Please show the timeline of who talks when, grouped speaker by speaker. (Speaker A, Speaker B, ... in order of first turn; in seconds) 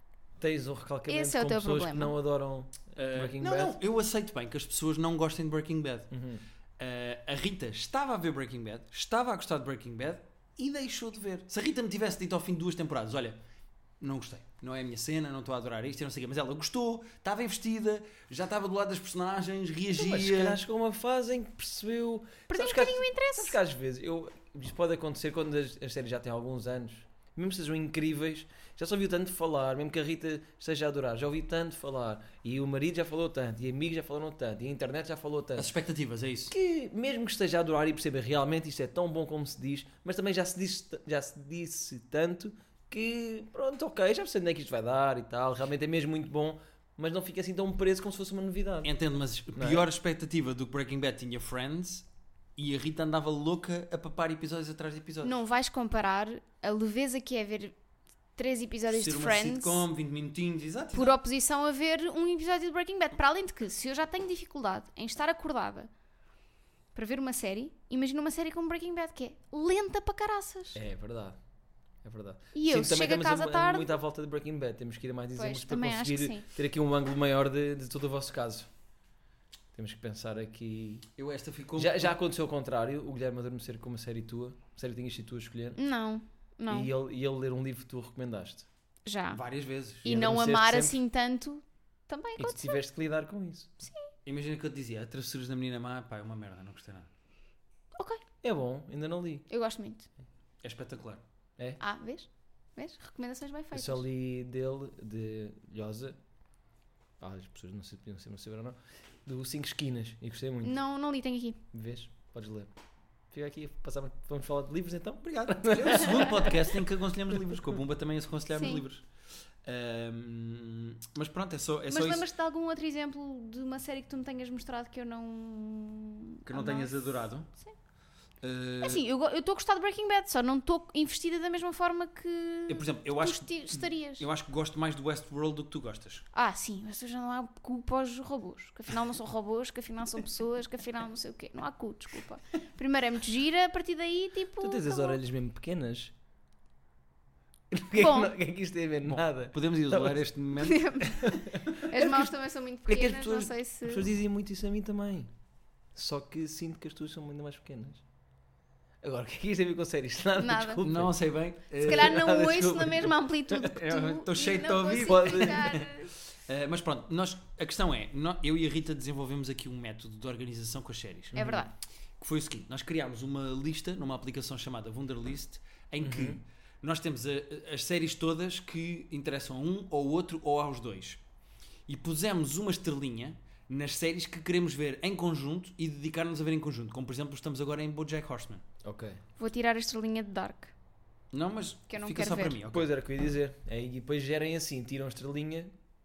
Speaker A: 0.4-3.8, 6.1-6.4, 19.9-35.7, 36.5-48.9, 49.5-49.9, 70.8-71.4, 72.0-78.7, 79.7-81.0, 81.8-85.8, 86.7-88.7, 90.0-91.0, 92.4-93.7, 98.4-99.5, 103.7-106.2, 107.2-110.8, 111.7-112.7, 113.3-116.7, 144.6-146.1, 147.7-150.2, 151.5-152.1, 152.9-155.3, 155.9-158.0, 159.0-161.1, 161.8-163.1, 165.0-165.7, 171.3-171.7, 176.0-176.4, 188.8-189.2, 192.7-195.7
Speaker B: 1.1-2.1, 22.5-23.6, 55.2-57.8, 58.4-59.9, 60.9-65.9, 67.0-70.8, 72.5-74.0, 75.4-76.5, 85.8-86.9, 89.1-89.4, 90.0-92.8, 93.8-94.1, 98.0-98.2, 99.5-100.1, 101.8-104.0, 110.6-111.6, 118.5-118.8, 121.9-126.9, 128.8-134.2, 136.3-145.2, 147.9-148.3, 150.6-154.1, 160.4-160.8, 161.8-166.1, 171.3-171.7, 189.4-190.7, 191.9-192.6
Speaker C: 3.0-6.1, 6.8-13.4, 14.0-20.6, 35.6-36.5, 48.8-52.1, 52.6-55.4, 58.9-61.1, 81.2-82.2, 89.3-90.1, 94.2-97.1, 100.6-101.2, 115.2-119.0, 119.6-122.3, 126.5-127.5, 128.4-129.0, 132.7-136.2, 149.1-151.8, 160.8-162.8, 163.5-165.9, 166.5-171.6, 172.2-181.2, 181.9-188.6, 191.3-192.9